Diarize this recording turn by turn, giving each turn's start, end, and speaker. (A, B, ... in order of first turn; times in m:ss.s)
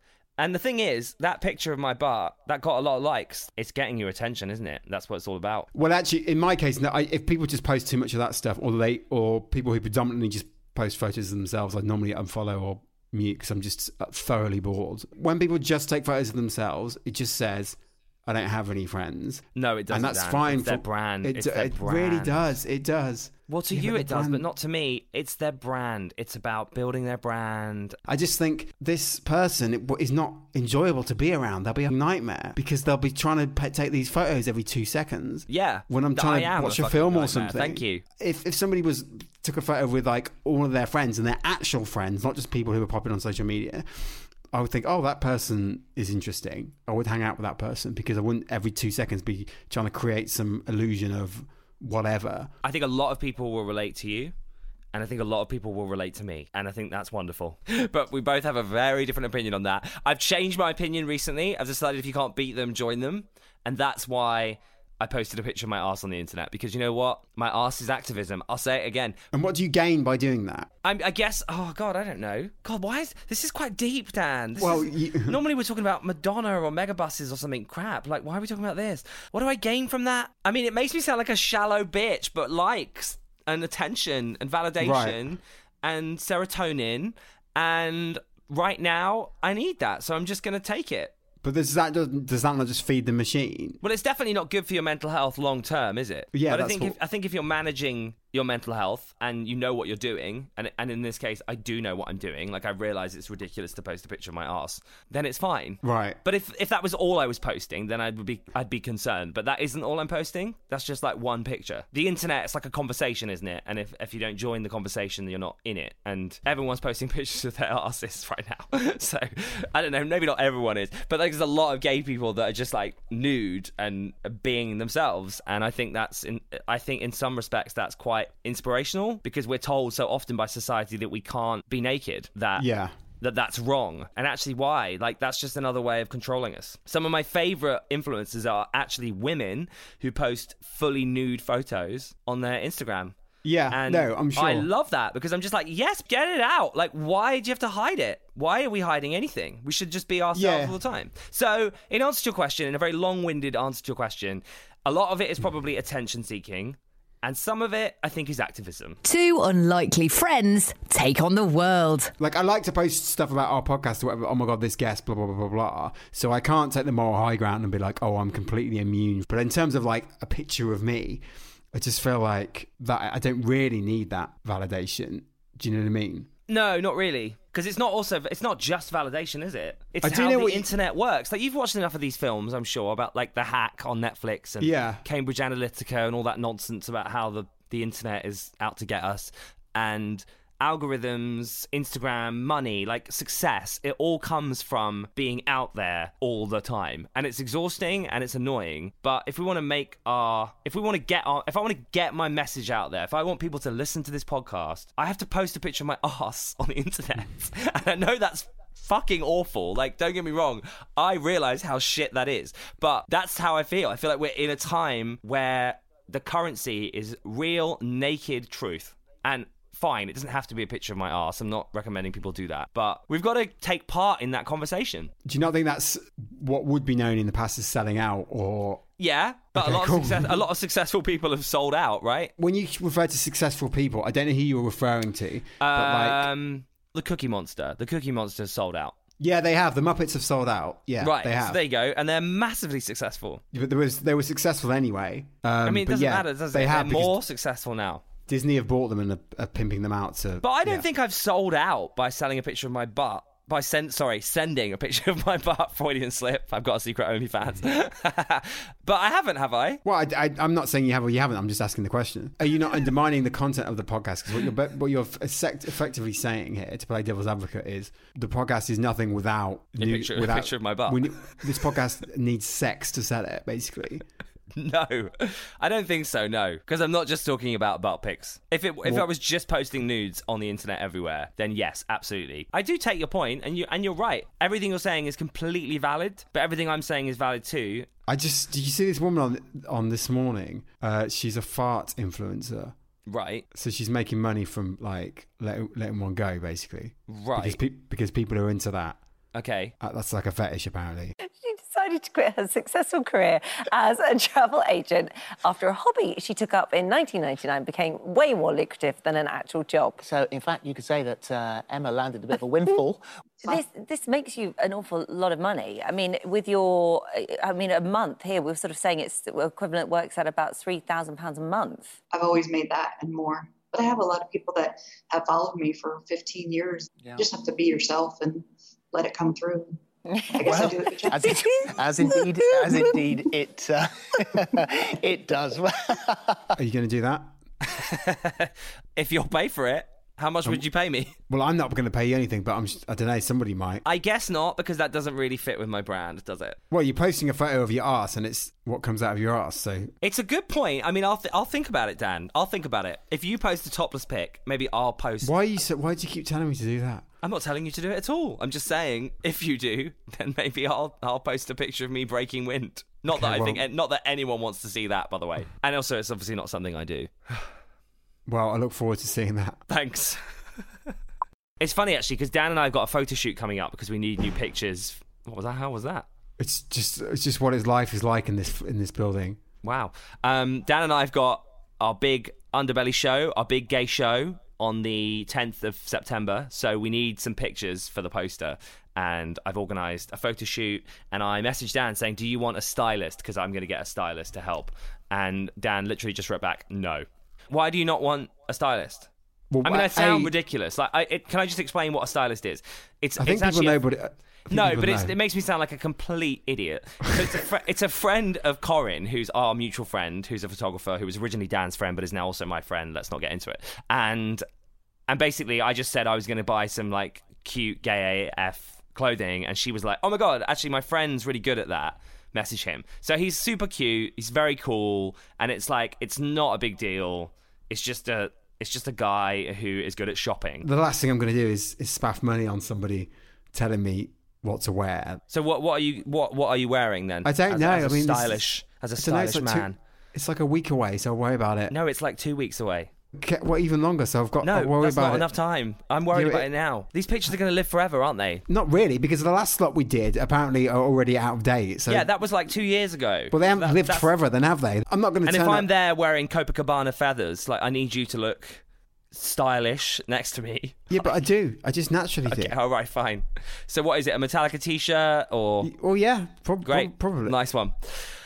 0:00.4-0:05.7 A
0:05.7-0:24.4 B
0:19.6-0:22.4 A
0:23.5-0:28.0 A
0:28.1-0:52.5 B
0:35.5-0:38.0 A
0:52.6-0:54.3 A
0:54.9-1:09.2 A
1:09.3-1:10.7 B
1:10.8-1:31.1 A
1:14.6-1:15.4 B
1:24.8-1:25.2 B
1:31.4-1:33.8 B
1:33.8-2:12.6 A
1:36.3-1:37.0 B
1:45.8-1:46.2 B
2:12.6-2:12.9 B
2:13.2-2:23.2 A
2:23.4-2:24.7 B
2:23.7-2:39.0 A
2:30.3-2:30.8 B
2:39.0-2:42.1 C
2:42.2-2:51.2 B
2:51.7-2:56.3 B
2:56.5-3:45.1 A
3:00.0-3:00.7 B
3:04.6-3:05.0 B
3:45.2-3:48.8 B
3:49.0-3:52.3 A
3:49.6-3:50.4 B
3:52.4-3:56.3 B
3:55.6-3:59.0 A
3:59.2-4:01.6 B
4:01.0-4:03.4 A
4:03.5-4:07.2 B
4:05.6-4:08.0 A
4:08.3-4:10.9 B
4:10.4-4:19.8 A
4:19.8-4:34.0 B
4:29.8-4:31.7 A
4:34.6-4:47.9 A
4:48.1-4:52.7 B
4:53.1-4:53.4 A
4:53.5-4:59.0 B
4:57.1-4:57.6 A
4:59.3-4:59.7 A
4:59.8-5:01.1 B
5:01.3-5:10.0 D
5:10.0-5:13.0 E
5:13.4-5:22.0 D
5:22.1-5:31.8 F
5:27.0-5:27.3 E
5:30.4-5:36.4 E
5:31.2-5:33.1 D
5:36.6-5:37.3 B
5:37.7-5:41.1 A
5:41.3-5:43.8 B
5:43.8-5:46.6 A
5:46.7-5:49.9 B
5:50.0-5:55.3 A
5:55.2-5:57.0 B
5:57.2-6:07.1 A
6:03.1-6:03.6 B
6:08.3-6:09.6 B
6:09.7-6:10.2 A
6:11.6-6:16.1 A
6:16.4-6:19.4 B
6:19.6-6:39.1 A
6:39.5-6:40.3 B
6:39.6-6:43.8 A
6:43.2-6:45.2 B
6:44.5-6:54.4 A
6:55.1-7:10.7 A
7:10.6-7:15.2 B
7:15.3-7:19.8 A
7:17.2-7:18.4 B
7:19.0-7:21.8 B
7:21.7-7:22.9 A
7:23.2-7:25.3 B
7:24.4-7:28.4 A
7:26.1-7:26.5 B
7:28.5-7:32.1 B
7:31.9-7:34.1 A
7:33.3-7:35.7 B
7:35.3-7:41.1 A
7:40.9-7:42.5 B
7:42.3-7:45.7 A
7:45.6-7:47.4 B
7:46.6-7:48.1 A